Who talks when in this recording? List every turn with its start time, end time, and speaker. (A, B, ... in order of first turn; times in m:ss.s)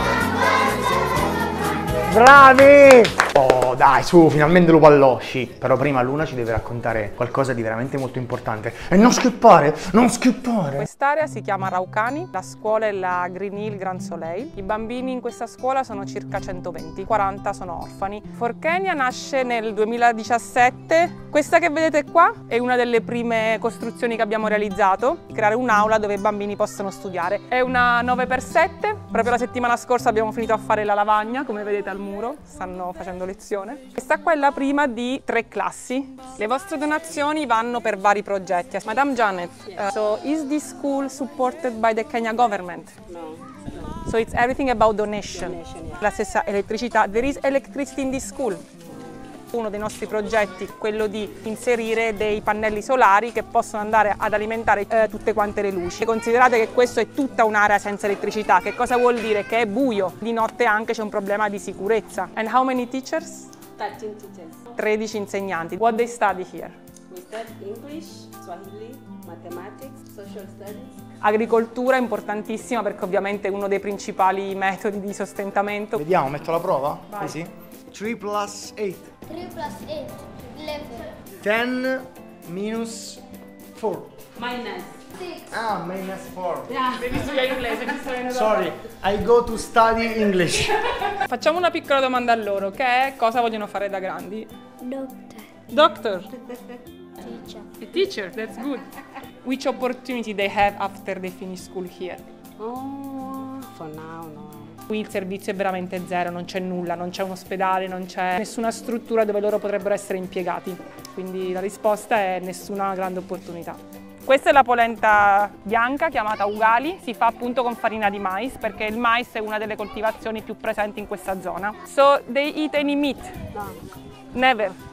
0:02.1-0:03.3 A
0:03.3-0:10.8 B
0:10.8-0:42.9 C
0:43.1-0:43.9 D
0:44.0-0:48.6 C
0:45.4-0:46.0 D
0:49.5-1:03.5 C
1:03.8-1:04.6 D
1:04.7-1:06.8 C
1:07.1-1:11.0 D
1:11.2-1:16.1 C
1:16.4-1:17.4 B
1:17.1-1:17.4 C
1:17.9-1:19.3 A
1:19.3-1:21.1 E
1:21.4-1:23.2 A
1:23.7-1:24.2 A
1:24.4-1:25.0 D
1:25.5-1:26.7 A
1:26.9-1:28.7 C
1:28.3-1:30.8 A
1:31.1-1:34.5 C
1:34.8-1:35.5 E
1:35.7-1:36.3 C
1:37.2-1:37.6 E
1:37.6-1:38.9 C
1:39.4-1:42.2 C
1:42.6-1:44.7 D
1:44.9-2:03.3 C
2:03.5-2:03.8 D
2:04.3-2:04.8 C